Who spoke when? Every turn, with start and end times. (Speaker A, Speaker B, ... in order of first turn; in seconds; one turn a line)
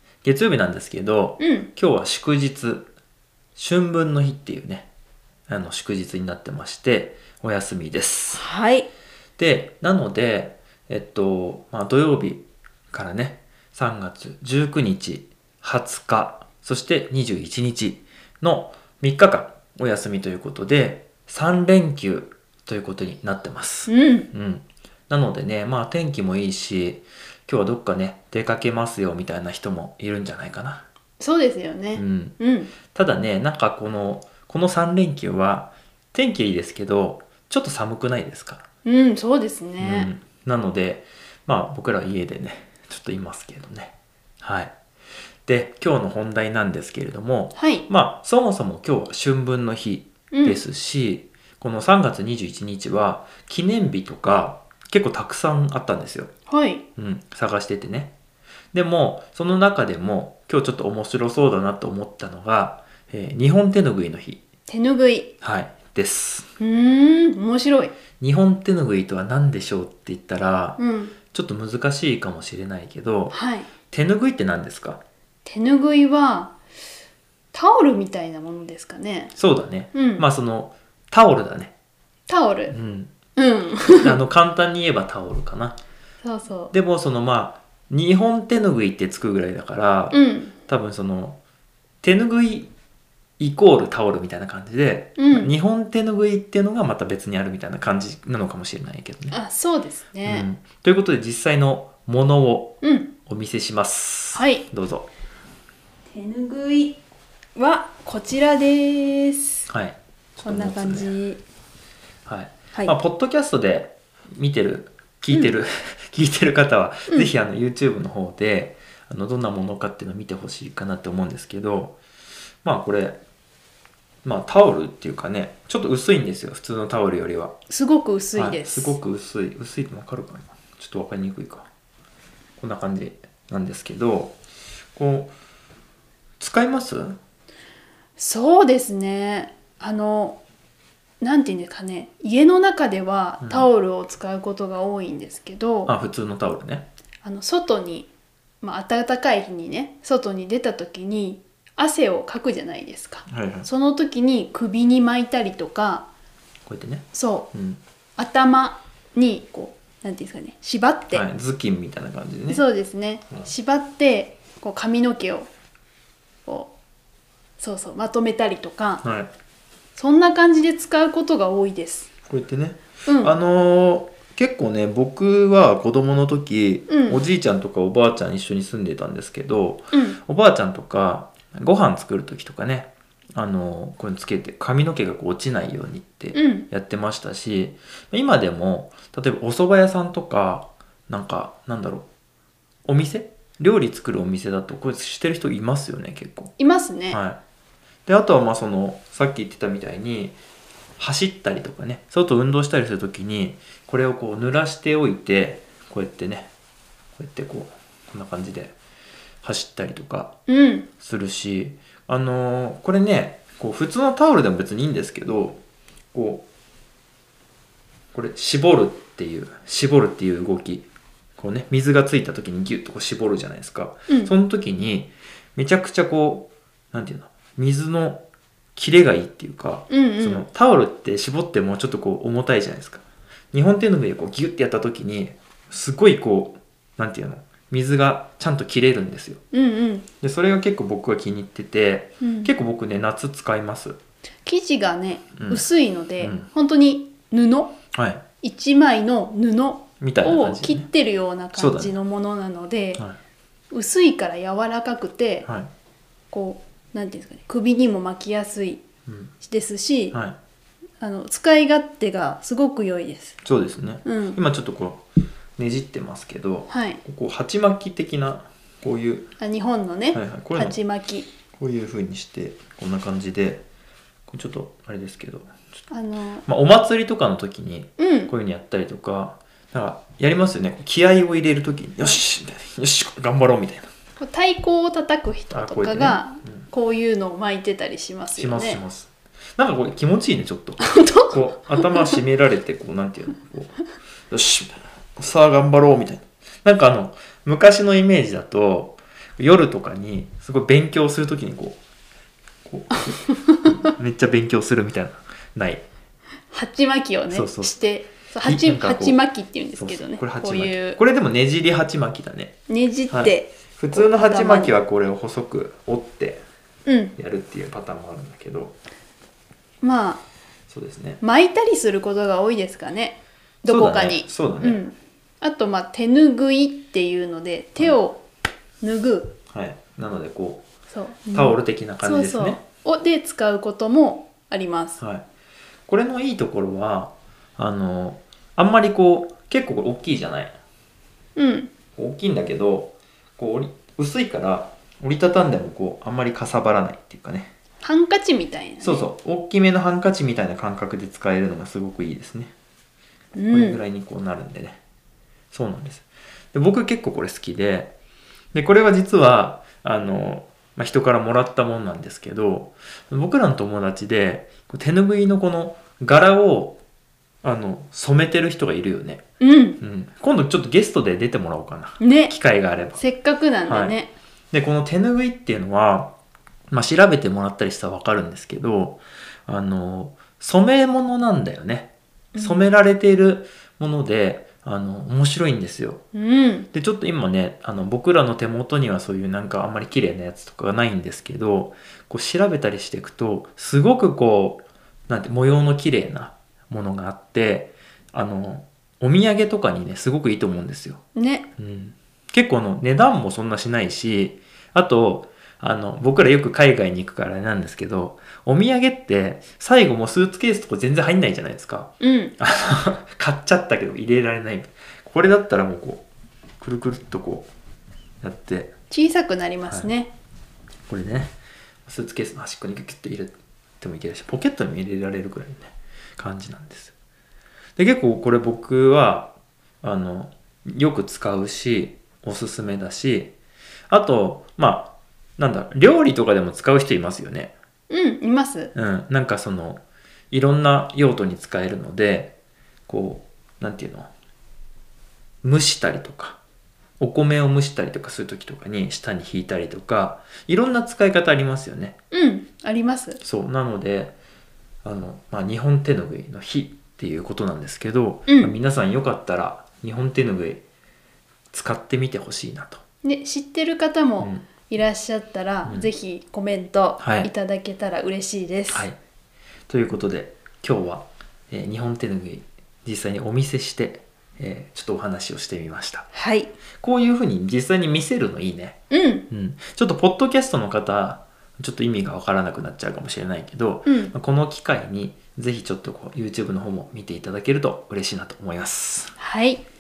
Speaker A: 0.2-2.9
Speaker B: 1.4-1.7
Speaker A: 3.6-4.9
Speaker A: 5.5-8.4
Speaker B: 8.3-8.9
Speaker A: 9.4-30.9
Speaker B: 23.9-24.3
Speaker B: 31.2-32.7
Speaker A: 31.9-32.4
Speaker A: 32.9-38.7
Speaker B: 38.9-40.1
Speaker A: 39.8-44.7
Speaker A: 45.5-56.3
Speaker B: 47.5-47.9
Speaker B: 50.3-50.6
Speaker B: 56.5-56.9
Speaker A: 57.0-58.1
Speaker A: 58.7-64.4
Speaker B: 64.7-65.3
Speaker A: 65.4-66.5
Speaker B: 66.6-67.9
Speaker A: 68.2-70.8
Speaker B: 70.8-71.2
Speaker A: 71.3-73.4
Speaker B: 73.3-73.7
Speaker A: 73.9-75.0
Speaker B: 75.5-76.6
Speaker B: 77.5-79.3
Speaker A: 79.3-81.7
Speaker B: 79.9-80.2
Speaker B: 82.3-82.8
Speaker A: 82.7-83.1
Speaker B: 83.3-84.2
Speaker A: 84.0-85.8
Speaker B: 86.2-86.7
Speaker A: 86.7-91.4
Speaker B: 90.1-90.5
Speaker A: 92.0-92.7
Speaker A: 93.4-99.4
Speaker B: 95.2-95.5
Speaker B: 99.3-100.5
Speaker A: 100.2-105.1
Speaker B: 102.8-103.1
Speaker B: 104.3-104.7
Speaker B: 106.1-107.0
Speaker B: 107.5-109.7
Speaker A: 109.7-111.1
Speaker B: 110.4-111.4
Speaker A: 112.3-122.0
Speaker A: 122.6-123.2
Speaker A: 124.2-127.6
Speaker B: 127.7-129.0
Speaker A: 128.3-131.7
Speaker A: 132.6-134.4
Speaker A: 134.9-135.3
Speaker A: 136.4-137.2
Speaker B: 138.2-140.4
Speaker B: 141.2-145.9
Speaker A: 143.4-143.7
Speaker A: 145.9-146.9
Speaker B: 147.2-148.1
Speaker B: 148.6-156.1
Speaker A: 153.3-153.7
Speaker A: 156.7-157.8
Speaker B: 157.1-157.5
Speaker B: 158.2-161.2
Speaker A: 161.1-162.6
Speaker B: 162.5-165.5
Speaker B: 166.5-166.7
Speaker B: 167.6-169.0
Speaker A: 169.0-169.3
Speaker B: 170.0-172.1
Speaker A: 172.3-192.1
Speaker B: 173.1-173.3
Speaker B: 176.9-177.2
Speaker B: 179.9-180.2
Speaker B: 186.3-186.7
Speaker A: 192.9-196.5
Speaker B: 196.6-197.2
Speaker A: 197.1-197.4
Speaker A: 198.1-200.3
Speaker A: 201.0-206.5
Speaker A: 207.2-208.8
Speaker A: 209.4-210.4
Speaker B: 210.5-210.9
Speaker A: 211.0-215.6
Speaker A: 216.1-216.4
Speaker A: 218.1-228.2
Speaker A: 228.8-239.4
Speaker B: 229.9-230.5
Speaker B: 239.5-240.1
Speaker A: 240.2-244.0
Speaker B: 242.2-242.5
Speaker B: 244.4-247.8
Speaker A: 245.4-245.7
Speaker A: 246.2-246.5
Speaker A: 247.9-248.2
Speaker B: 248.4-253.1
Speaker A: 250.0-250.9
Speaker A: 251.5-251.9
Speaker B: 253.7-255.5
Speaker A: 255.4-255.7
Speaker B: 256.3-258.8
Speaker A: 259.1-259.3
Speaker B: 259.4-260.2
Speaker B: 261.0-263.4
Speaker A: 263.4-265.0
Speaker B: 264.1-264.4
Speaker A: 265.6-269.3
Speaker B: 266.7-267.0
Speaker B: 269.4-271.3
Speaker A: 270.1-270.8
Speaker A: 271.5-273.6
Speaker A: 274.3-275.6
Speaker B: 275.9-276.5
Speaker A: 276.5-283.9
Speaker B: 278.0-278.3
Speaker B: 284.2-288.8
Speaker A: 285.5-286.6
Speaker A: 288.4-301.8
Speaker B: 290.8-292.2
Speaker A: 302.6-305.9
Speaker B: 303.4-303.8
Speaker B: 306.5-311.0
Speaker A: 307.3-307.7
Speaker A: 308.4-309.2
Speaker A: 309.8-312.6
Speaker B: 312.7-314.8
Speaker A: 313.1-316.4
Speaker B: 316.9-317.1
Speaker A: 317.2-318.8
Speaker B: 319.8-320.2
Speaker A: 320.7-321.2
Speaker B: 321.2-328.2
Speaker A: 323.7-324.8
Speaker B: 328.8-329.4
Speaker A: 329.5-330.6
Speaker B: 330.9-335.0
Speaker A: 331.3-332.6
Speaker A: 335.0-335.2
Speaker A: 335.9-340.6
Speaker B: 341.4-341.7
Speaker A: 342.0-347.5
Speaker B: 347.8-349.1
Speaker A: 348.8-352.5
Speaker B: 353.4-353.8
Speaker A: 353.5-354.8
Speaker A: 355.5-357.9
Speaker A: 358.5-366.8
Speaker A: 367.4-369.2
Speaker B: 369.4-369.8
Speaker A: 369.8-373.0
Speaker B: 372.0-372.3
Speaker B: 373.0-374.1
Speaker A: 373.6-374.0
Speaker A: 374.5-376.1
Speaker A: 376.7-386.0
Speaker B: 382.4-382.6
Speaker B: 386.1-386.7
Speaker A: 386.7-401.0
Speaker B: 401.1-401.5
Speaker A: 401.6-416.0
Speaker B: 412.0-412.4
Speaker A: 416.6-417.5
Speaker A: 418.2-418.7
Speaker B: 418.9-420.1
Speaker A: 420.9-426.9
Speaker A: 427.8-433.3
Speaker A: 433.9-437.5
Speaker B: 437.9-438.7
Speaker A: 438.7-442.3
Speaker A: 442.9-444.1
Speaker A: 445.4-446.4
Speaker A: 447.0-452.0
Speaker B: 452.1-453.2
Speaker A: 453.2-454.2
Speaker A: 454.8-460.6
Speaker B: 458.3-458.6
Speaker A: 461.5-462.8
Speaker B: 463.0-468.9
Speaker A: 464.2-464.5
Speaker A: 465.6-465.9
Speaker A: 467.0-467.3
Speaker A: 468.7-469.0
Speaker A: 469.7-476.1
Speaker B: 476.1-476.5
Speaker A: 476.8-489.1
Speaker B: 478.9-479.2
Speaker B: 483.9-484.1
Speaker B: 489.2-489.6